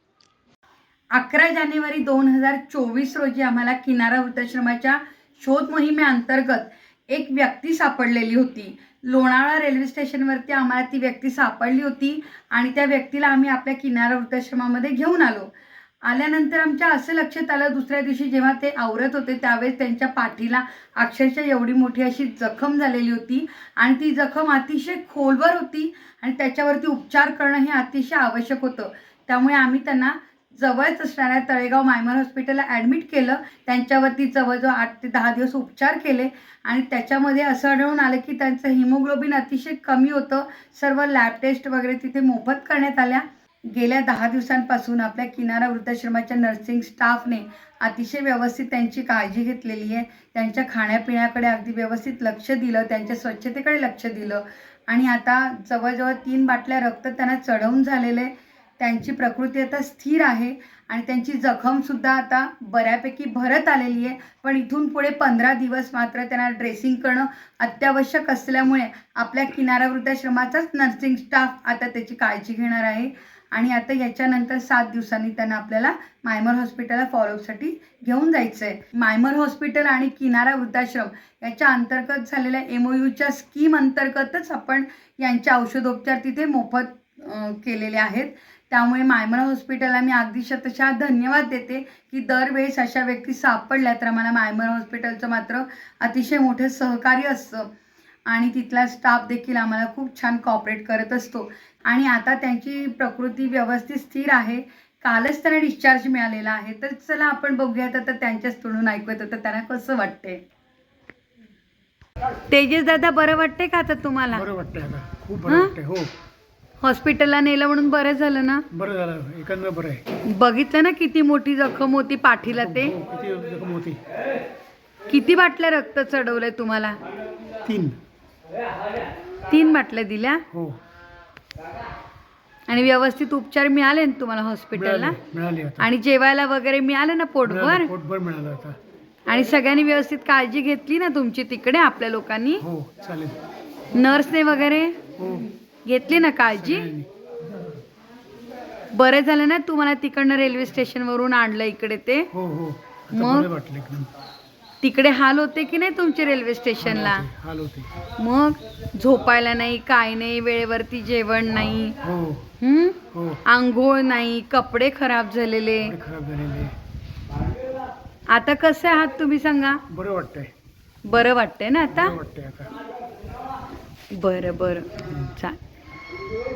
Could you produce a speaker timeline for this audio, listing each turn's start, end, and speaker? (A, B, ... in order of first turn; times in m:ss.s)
0:01.1-0:15.5 A
0:16.0-1:37.7 A
1:38.3-1:50.4 A
1:52.5-1:54.5 A
1:54.3-1:56.1 B
1:55.5-1:55.7 A
1:56.8-1:58.6 A
1:58.7-2:00.0 B
2:00.2-2:03.0 A
2:02.6-2:04.0 B
2:05.1-2:07.0 A
2:07.6-2:08.0 B
2:09.5-2:10.5 A
2:10.5-2:10.8 B
2:12.7-2:15.2 A
2:14.7-2:15.9 B
2:15.8-2:17.9 A
2:17.4-2:18.8 B
2:19.3-2:22.6 A
2:22.6-2:23.4 B
2:23.9-2:25.0 A
2:25.2-2:25.5 B
2:25.9-2:26.9 A
2:26.6-2:27.1 B
2:28.9-2:32.3 A
2:32.3-2:34.1 B
2:33.1-2:33.5 A
2:34.8-2:37.3 A
2:36.8-2:37.9 B
2:38.2-2:42.0 A
2:42.0-2:42.5 B
2:42.6-2:46.0 A
2:43.1-2:43.4 B
2:45.8-2:46.7 B
2:48.3-2:49.8 A
2:49.9-2:50.5 B
2:51.1-2:52.2 A
2:51.9-2:52.7 B
2:54.1-2:55.6 A
2:55.1-2:55.4 B